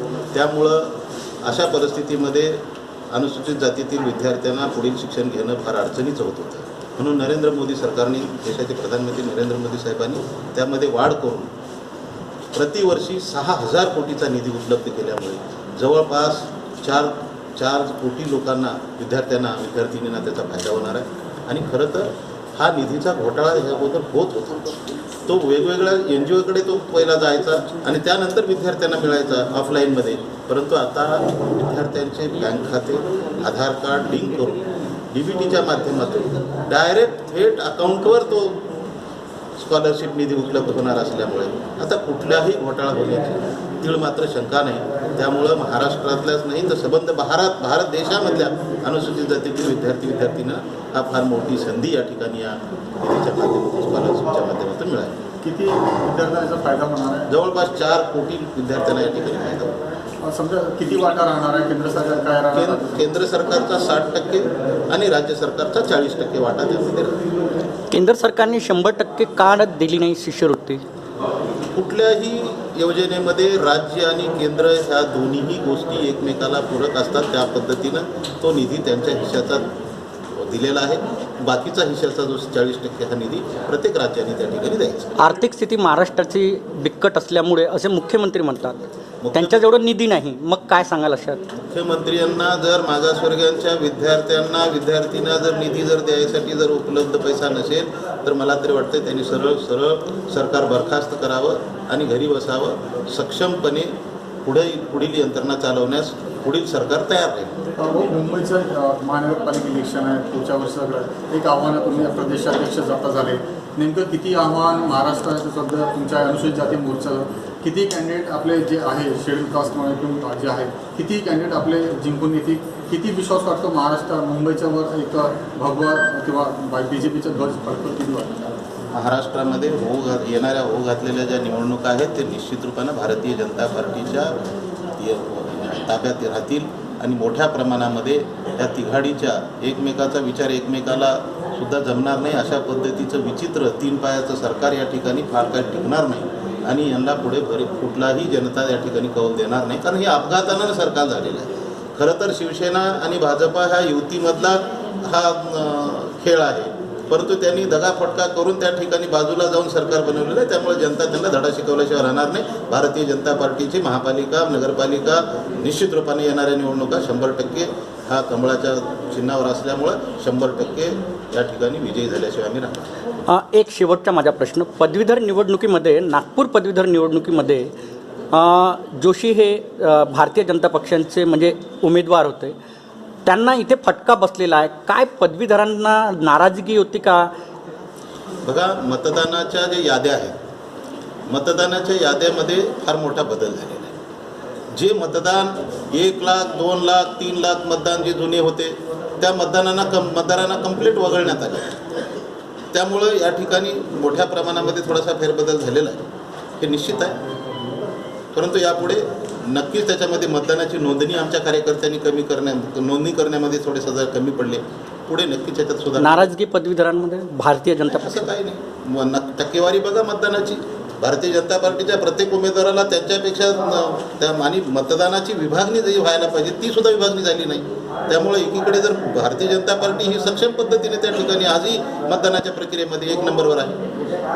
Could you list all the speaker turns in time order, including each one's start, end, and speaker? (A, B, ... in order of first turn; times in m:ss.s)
0:00.3-0:02.6 A
0:03.1-0:11.5 A
0:12.5-0:38.6 A
0:39.6-0:55.2 A
0:55.4-0:57.3 B
0:57.3-0:59.8 A
1:00.2-1:03.0 B
1:02.5-1:07.2 A
1:07.9-1:10.8 C
1:11.7-1:19.7 A
1:20.3-1:25.2 A
1:25.2-1:28.8 C
1:29.2-1:29.6 A
1:29.3-1:31.4 C
1:31.6-1:43.9 A
1:44.4-1:47.5 A
1:47.8-2:08.5 B
2:08.9-2:14.4 A
2:15.0-2:52.9 A
2:53.3-2:57.7 C
2:58.3-3:02.6 C
3:03.2-3:07.3 C
3:08.4-3:10.3 A
3:11.3-3:13.9 A
3:14.7-3:21.8 A
3:22.7-3:26.0 A
3:26.6-3:27.2 A
3:28.3-3:36.3 A
3:36.0-3:38.3 C
3:37.9-3:53.8 A